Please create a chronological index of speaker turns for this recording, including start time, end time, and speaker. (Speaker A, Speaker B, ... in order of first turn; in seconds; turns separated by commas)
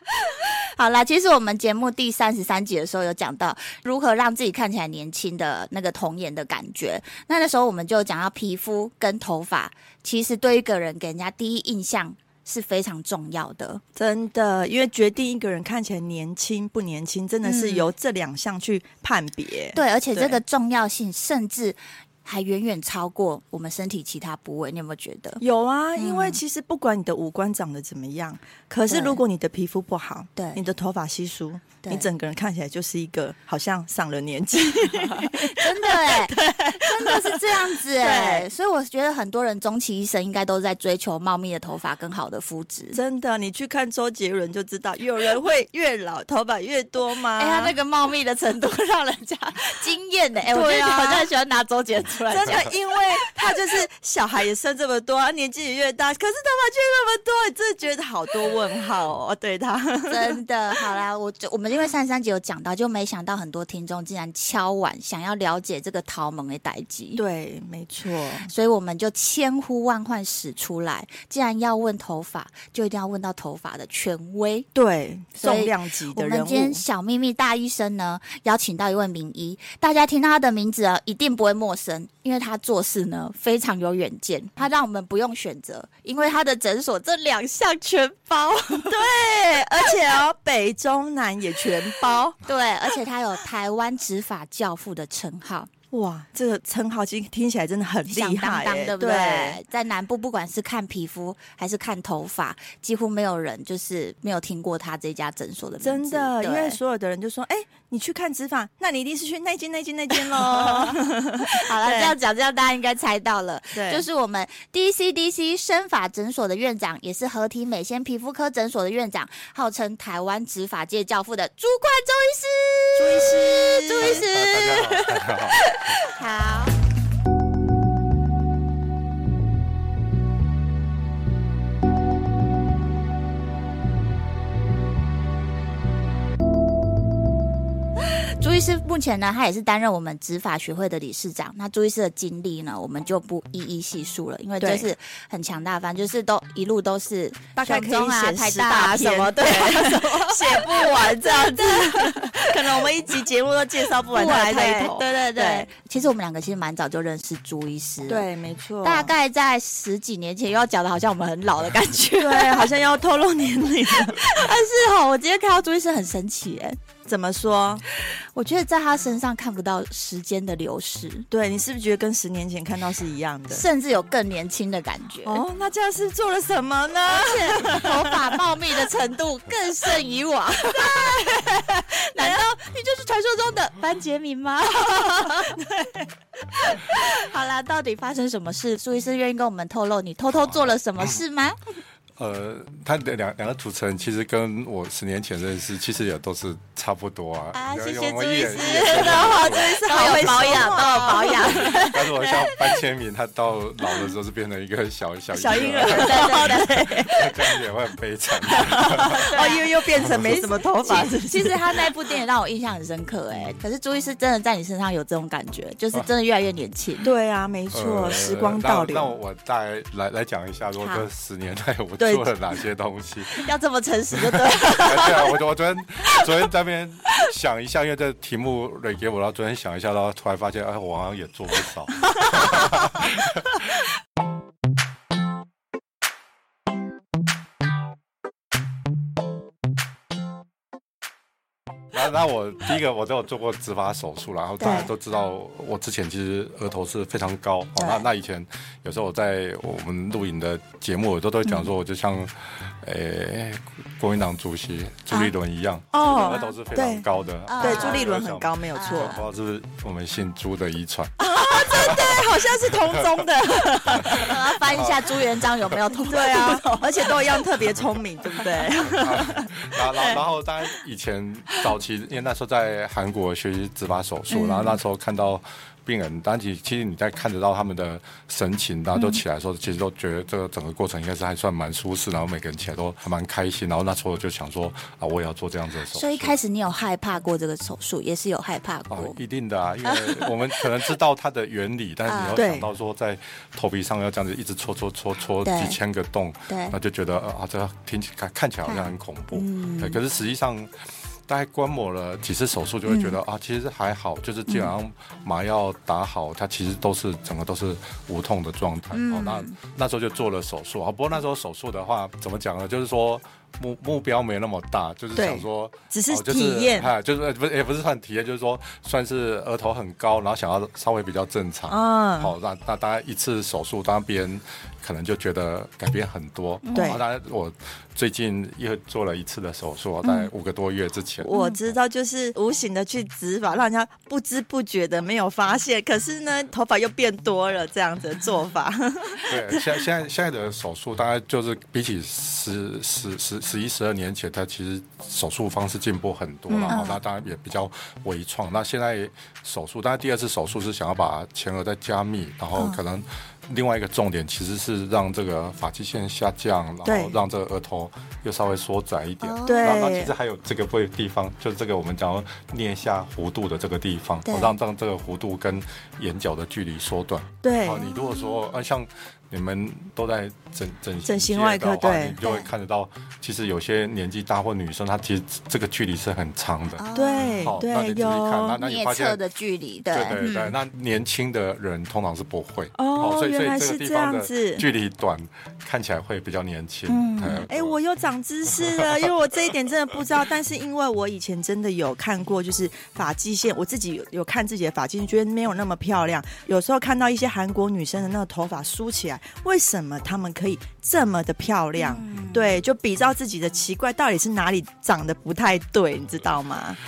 Speaker A: 0.2-13.8, Speaker B: 13.9-20.4, Speaker A: 17.4-17.9, Speaker A: 19.7-25.4, Speaker B: 25.4-38.5, Speaker A: 25.9-26.4, Speaker A: 28.9-29.2, Speaker A: 30.4-30.6, Speaker A: 35.1-43.0, Speaker B: 42.9-47.7, Speaker A: 47.4-53.4, Speaker B: 50.5-51.3, Speaker B: 52.3-60.4, Speaker A: 60.1-67.2, Speaker B: 67.2-68.5, Speaker A: 68.5-74.7, Speaker B: 74.7-76.8, Speaker A: 75.3-89.0, Speaker B: 88.9-92.3, Speaker A: 92.4-95.7, Speaker B: 95.9-99.6, Speaker A: 98.1-106.8, Speaker B: 105.8-112.1, Speaker A: 110.2-126.7, Speaker B: 113.7-114.0, Speaker B: 123.0-124.3, Speaker C: 124.0-126.0, Speaker A: 138.0-152.5, Speaker B: 144.6-144.9, Speaker B: 147.6-155.7, Speaker A: 154.1-158.2, Speaker B: 158.1-159.1, Speaker A: 158.8-162.7, Speaker B: 162.2-164.2, Speaker A: 164.1-166.8, Speaker B: 167.1-167.8, Speaker A: 168.3-171.3, Speaker B: 171.3-173.6, Speaker A: 173.5-175.4, Speaker B: 175.2-178.1, Speaker A: 177.1-185.6, Speaker B: 180.7-181.4, Speaker B: 182.2-182.4, Speaker B: 185.2-186.0, Speaker A: 186.5-191.6, Speaker C: 190.3-191.2, Speaker C: 192.2-209.2, Speaker A: 197.5-202.5, Speaker B: 198.5-201.9, Speaker B: 205.3-207.5, Speaker A: 205.8-206.8, Speaker B: 208.5-211.6, Speaker A: 208.9-217.1, Speaker B: 217.0-219.1, Speaker C: 217.7-223.4, Speaker A: 220.8-221.1, Speaker A: 223.4-225.3, Speaker C: 224.2-233.6, Speaker C: 241.9-263.2, Speaker B: 244.6-244.9, Speaker B: 247.8-248.0, Speaker B: 255.9-257.0, Speaker A: 256.1-256.5, Speaker A: 257.5-258.1, Speaker B: 257.6-259.2, Speaker A: 258.7-259.2, Speaker B: 261.2-264.3, Speaker C: 263.9-265.7, Speaker A: 264.1-266.8, Speaker B: 266.1-270.2, Speaker C: 268.8-286.3, Speaker A: 274.3-274.8, Speaker A: 278.9-279.2, Speaker A: 285.9-289.1, Speaker C: 288.9-300.7, Speaker A: 289.9-290.6, Speaker A: 292.1-292.4, Speaker B: 292.3-292.7, Speaker A: 295.4-295.8, Speaker A: 296.5-296.8, Speaker A: 298.6-300.0, Speaker C: 301.3-331.3, Speaker A: 302.9-303.2, Speaker A: 308.9-309.6, Speaker B: 315.1-316.9, Speaker B: 321.7-322.3, Speaker A: 326.6-327.0, Speaker B: 326.7-327.0, Speaker A: 330.0-330.3, Speaker B: 331.2-339.6, Speaker C: 339.2-376.8, Speaker B: 346.5-346.8, Speaker A: 346.7-347.0, Speaker B: 356.8-357.1, Speaker A: 359.2-359.8, Speaker B: 359.4-360.1, Speaker A: 364.2-364.5, Speaker B: 367.4-367.9, Speaker A: 367.8-368.4, Speaker B: 371.0-372.2, Speaker A: 372.2-372.5, Speaker A: 376.8-377.6, Speaker B: 376.9-378.6, Speaker C: 377.4-379.2, Speaker A: 378.6-380.5, Speaker C: 379.9-387.8, Speaker B: 382.8-384.6, Speaker A: 386.9-387.4, Speaker B: 387.5-406.8, Speaker A: 401.8-402.6